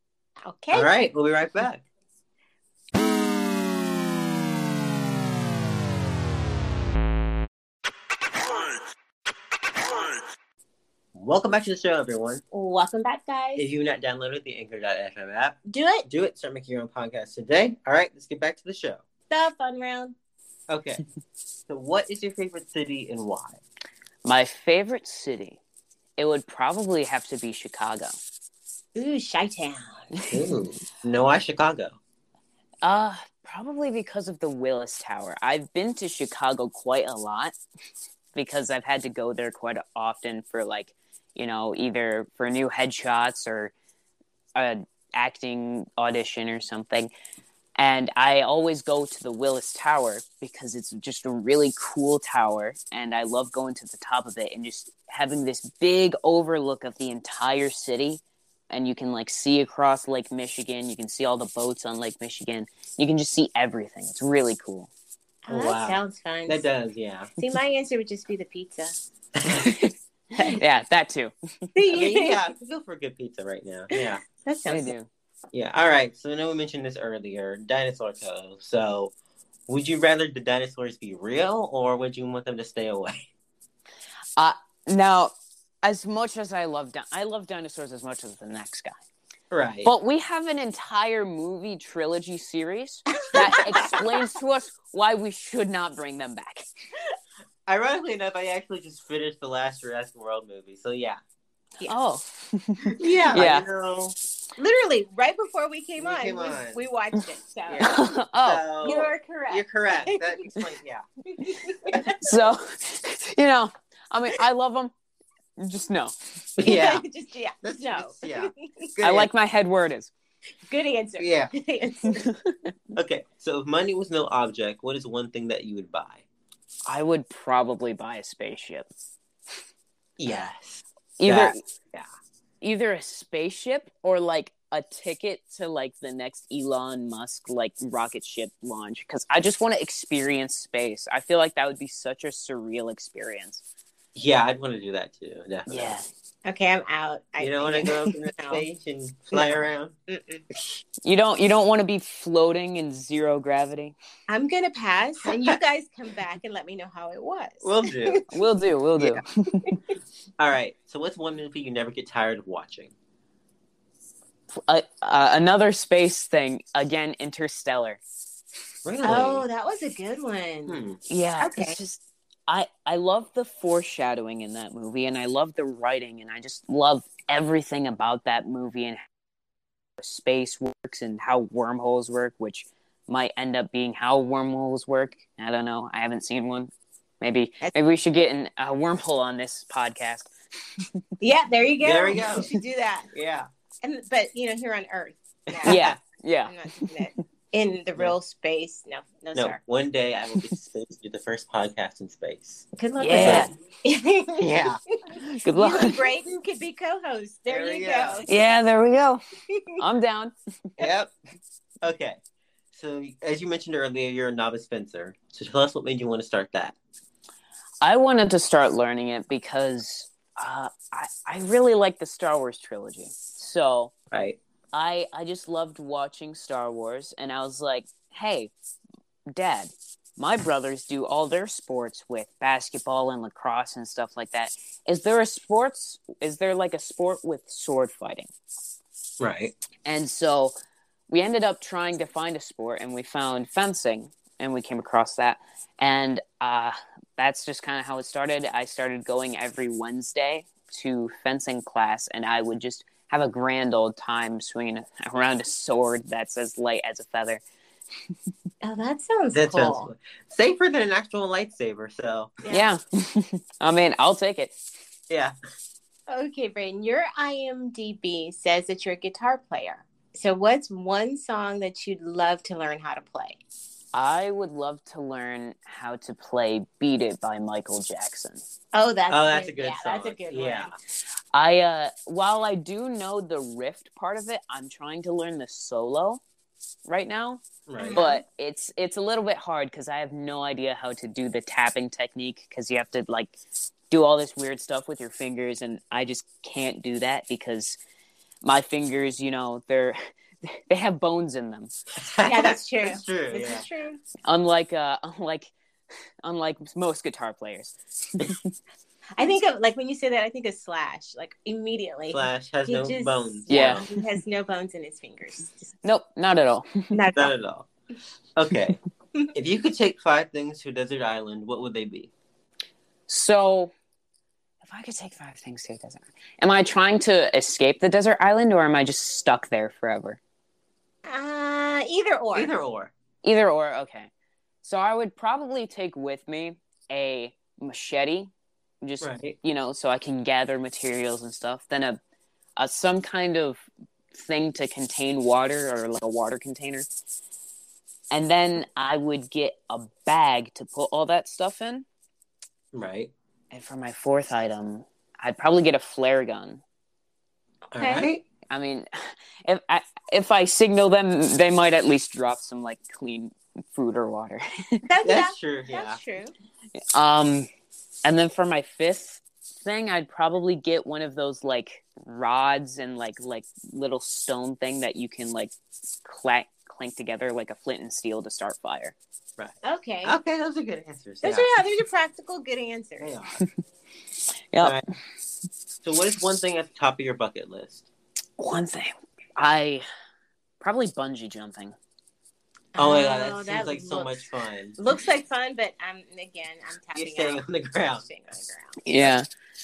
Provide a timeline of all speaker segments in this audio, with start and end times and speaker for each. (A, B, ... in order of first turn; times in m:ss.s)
0:00.4-0:00.9 A
0:00.7-0:01.8 B
0:11.1-0:12.4 B
0:12.5-0:13.6 A
0:13.6-0:19.0 B
0:15.7-0:16.1 A
0:19.3-0:20.1 A
0:20.7-0:21.0 B
0:21.7-0:23.6 B
0:24.2-0:25.6 C
0:26.2-0:28.2 C
0:28.9-0:30.1 A
0:30.3-0:32.0 B
0:32.8-0:37.5 C
0:38.3-0:43.7 C
0:44.6-0:47.1 C
0:47.8-1:04.9 C
1:05.4-1:06.6 A
1:05.5-1:07.3 B
1:07.4-1:08.9 A
1:09.4-1:09.7 B
1:09.4-1:11.3 C
1:11.7-1:12.4 A
1:11.9-1:14.2 B
1:14.0-1:14.9 A
1:14.6-1:15.1 C
1:15.5-1:19.1 B
1:19.7-1:23.3 B
1:24.4-1:29.0 C
1:29.5-1:29.9 B
1:29.8-1:36.7 C
1:33.3-1:34.1 A
1:37.7-1:41.2 B
1:41.9-1:43.6 C
1:43.0-1:44.1 B
1:43.0-1:43.4 A
1:44.6-1:47.9 A
1:46.0-1:46.8 B
1:47.7-1:51.0 B
1:47.8-1:48.6 C
1:48.8-1:50.5 A
1:51.3-1:52.2 A
1:52.0-1:54.9 C
1:55.6-1:56.1 C
1:56.6-1:57.0 B
1:56.6-1:58.9 A
1:57.6-1:59.3 B
1:59.0-2:00.1 C
2:00.7-2:02.3 A
2:01.2-2:01.5 B
2:02.2-2:02.7 C
2:02.9-2:06.2 B
2:06.9-2:08.9 C
2:10.2-2:12.1 B
2:11.2-2:11.6 C
2:12.6-2:23.6 C
2:24.1-2:26.0 B
2:25.7-2:26.1 C
2:26.4-2:28.6 A
2:27.4-2:29.9 B
2:29.3-2:30.4 A
2:31.0-2:33.9 C
2:34.3-2:38.3 A
2:35.2-2:35.6 B
2:37.6-2:38.2 B
2:38.3-2:39.8 C
2:40.4-2:42.9 B
2:44.5-2:48.0 C
2:48.8-2:49.4 B
2:49.0-2:50.8 A
2:50.7-2:51.0 B
2:51.1-2:59.0 C
2:51.4-2:51.8 A
3:00.0-3:10.3 C
3:11.2-3:13.1 A
3:11.8-3:12.5 B
3:13.1-3:13.5 B
3:13.8-3:15.8 A
3:15.5-3:16.0 B
3:15.6-3:16.9 C
3:16.5-3:19.6 A
3:19.3-3:23.5 B
3:22.8-3:28.3 A
3:23.0-3:23.5 C
3:24.4-3:24.8 B
3:25.2-3:26.0 C
3:27.5-3:28.2 B
3:28.3-3:29.2 C
3:29.8-3:30.8 C
3:30.8-3:31.1 B
3:31.8-3:32.2 B
3:32.7-3:36.7 B
3:37.8-3:43.9 C
3:44.1-3:44.4 B
3:44.7-3:48.5 C
3:49.3-3:58.3 C
3:59.2-3:59.5 B
3:59.8-4:00.5 C
4:01.1-4:17.4 C
4:18.6-4:19.9 A
4:19.3-4:22.4 B
4:22.4-4:22.7 A
4:22.5-4:24.6 C
4:25.1-4:25.3 B
4:26.1-4:33.4 A
4:33.9-4:38.4 C
4:38.7-4:40.7 A
4:39.1-4:40.8 B
4:41.3-4:46.2 C
4:46.8-4:47.4 C
4:47.7-4:48.0 B
4:47.8-4:48.2 A
4:47.9-4:53.3 C
4:53.9-4:57.8 C
4:58.4-5:01.7 C
5:02.0-5:03.6 B
5:02.2-5:04.0 A
5:04.2-5:05.5 C
5:06.2-5:08.5 C
5:09.2-5:15.7 A
5:12.1-5:13.9 B
5:13.5-5:13.9 C
5:15.8-5:16.9 C
5:16.9-5:17.3 A
5:17.1-5:17.7 B
5:18.4-5:18.8 B
5:19.3-5:22.1 B
5:23.1-5:23.7 C
5:24.6-5:30.2 C
5:31.0-5:32.5 A
5:32.3-5:32.9 B
5:33.2-5:34.1 C
5:34.6-5:38.3 C
5:38.8-5:42.0 C
5:39.0-5:39.4 B
5:42.6-5:46.8 C
5:48.1-5:51.8 C
5:52.7-5:53.1 B
5:53.5-5:56.6 C
5:57.7-5:58.2 B
5:57.8-5:58.1 A
5:58.5-5:58.9 C
5:59.4-6:04.4 C
6:04.8-6:06.3 A
6:05.0-6:06.0 B
6:06.9-6:07.5 C
6:08.0-6:15.5 C
6:16.0-6:18.9 C
6:19.4-6:21.5 B
6:19.6-6:20.2 A
6:21.2-6:23.1 A
6:23.0-6:23.4 B
6:24.5-6:24.8 C
6:25.8-6:27.8 B
6:28.4-6:29.8 C
6:30.6-6:31.7 C
6:32.7-6:38.8 A
6:32.8-6:34.8 B
6:36.9-6:38.0 B
6:38.8-6:39.3 C